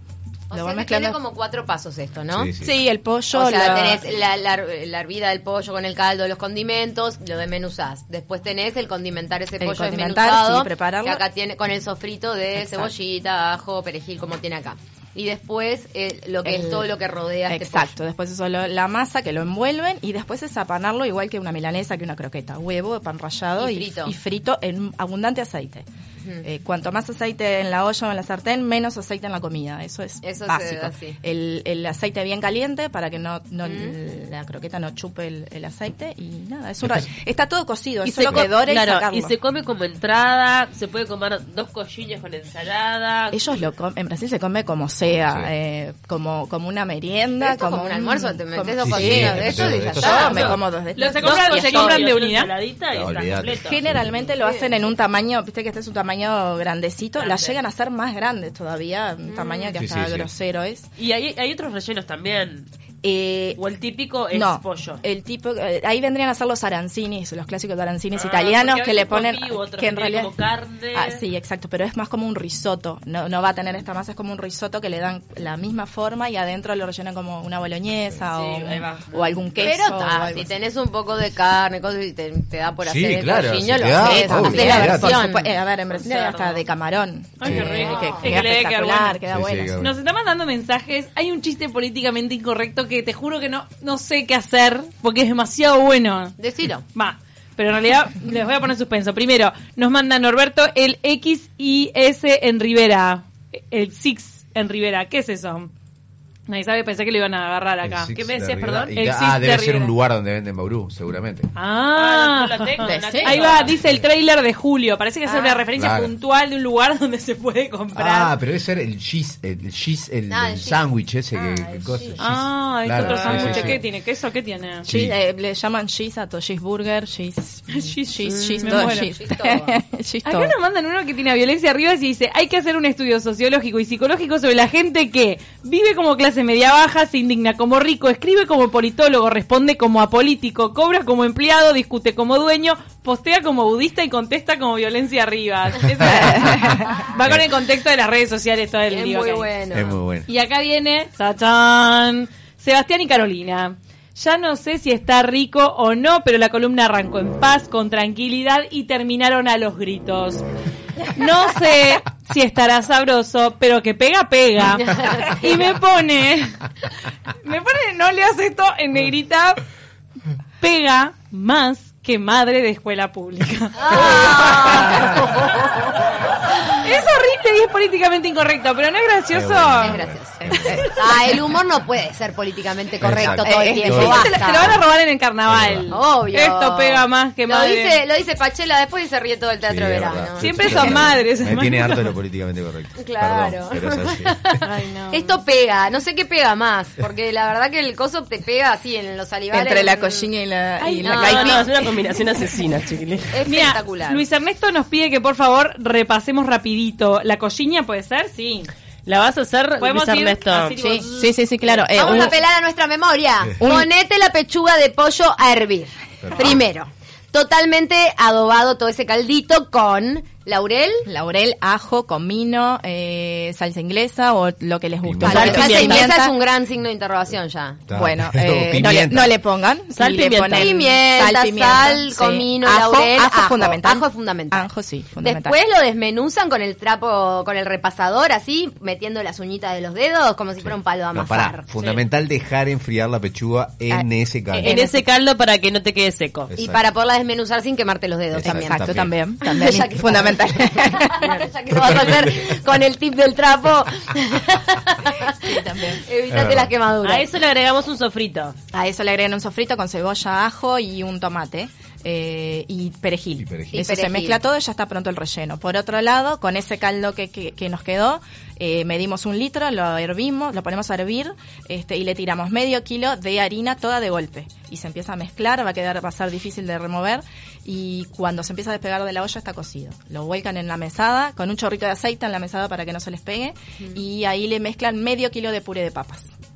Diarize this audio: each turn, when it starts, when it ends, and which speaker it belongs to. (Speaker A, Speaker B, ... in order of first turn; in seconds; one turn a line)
Speaker A: 0.5-2.5
Speaker B: 0.5-1.2
Speaker C: 2.3-2.7
Speaker B: 2.6-4.0
Speaker A: 3.3-17.9
Speaker B: 9.6-11.2
Speaker B: 16.4-16.9
Speaker B: 17.5-25.8
Speaker A: 23.6-24.1
Speaker A: 26.2-26.4
Speaker B: 26.4-39.3
Speaker A: 30.2-31.2
Speaker A: 33.6-34.0
Speaker D: 38.0-43.6
Speaker B: 43.3-52.0
Speaker C: 45.1-45.5
Speaker A: 47.4-50.6
Speaker C: 48.8-50.5
Speaker E: 50.0-50.4
Speaker E: 50.9-52.5
Speaker D: 51.2-54.6
Speaker C: 52.9-54.1
Speaker B: 53.6-60.9
Speaker D: 57.2-57.6
Speaker A: 59.2-59.8
Speaker C: 59.8-60.3
Speaker D: 61.0-62.7
Speaker B: 63.0-63.6
Speaker D: 63.6-65.0
Speaker B: 64.3-70.3
Speaker D: 68.1-71.2
Speaker B: 70.9-80.5
Speaker D: 78.3-79.4
Speaker A: 79.6-85.6
Speaker C: 82.8-85.2
Speaker B: 84.0-89.8
Speaker D: 85.9-86.6
Speaker E: 87.4-89.2
Speaker C: 87.4-88.4
Speaker A: 87.7-88.2
Speaker C: 89.3-90.0
Speaker E: 89.8-96.3
Speaker A: 96.4-96.8
Speaker E: 96.9-105.7
Speaker E: 106.5-108.1
Speaker C: 107.8-111.5
Speaker D: 108.2-109.0
Speaker E: 108.9-110.0
Speaker E: 111.5-118.3
Speaker D: 111.9-113.8
Speaker B: 112.8-113.6
Speaker C: 113.7-114.0
Speaker A: 115.2-115.6
Speaker C: 115.7-116.1
Speaker C: 117.9-123.8
Speaker A: 120.3-120.8
Speaker E: 121.3-124.9
Speaker B: 123.0-123.7
Speaker C: 124.8-125.1
Speaker B: 124.8-130.6
Speaker E: 127.7-129.1
Speaker D: 128.2-128.7
Speaker A: 128.7-129.7
Speaker E: 130.2-149.5
Speaker B: 146.0-146.8
Speaker C: 146.1-146.6
Speaker A: 148.9-149.9
Speaker C: 149.7-150.2
Speaker E: 150.3-160.4
Speaker E: 161.1-166.6
Speaker A: 164.8-165.3
Speaker E: 167.4-169.6
Speaker E: 170.6-175.1
Speaker A: 173.8-176.1
Speaker E: 176.7-180.9
Speaker C: 179.3-180.9
Speaker A: 179.8-184.8
Speaker B: 180.5-180.9
Speaker C: 183.0-184.8
Speaker B: 183.2-184.3
Speaker E: 183.9-188.0
Speaker C: 185.4-185.9
Speaker A: 185.9-191.1
Speaker C: 189.6-194.4
Speaker E: 190.4-192.1
Speaker A: 193.0-200.3
Speaker E: 194.6-195.4
Speaker B: 199.5-201.8
Speaker E: 200.8-201.4
Speaker A: 201.0-201.7
Speaker D: 201.1-203.4
Speaker A: 203.3-204.2
Speaker E: 203.4-208.7
Speaker D: 209.1-210.8
Speaker E: 209.8-211.1
Speaker B: 210.8-212.4
Speaker A: 211.9-221.1
Speaker B: 213.6-213.9
Speaker C: 216.2-216.6
Speaker B: 221.1-226.3
Speaker C: 225.0-225.7
Speaker A: 225.2-227.8
Speaker D: 225.3-226.1
Speaker C: 227.9-229.3
Speaker B: 227.9-235.6
Speaker D: 229.9-230.7
Speaker A: 230.5-234.7
Speaker A: 235.2-241.6
Speaker C: 240.6-244.8
Speaker D: 244.5-246.5
Speaker A: 244.6-245.0
Speaker C: 246.5-246.8
Speaker A: 246.6-257.3
Speaker C: 248.3-249.1
Speaker B: 248.4-251.4
Speaker C: 251.7-252.6
Speaker B: 255.4-256.0
Speaker C: 256.3-256.7
Speaker D: 257.0-258.6
Speaker B: 258.7-286.2
Speaker C: 263.4-263.8
Speaker A: 263.7-264.4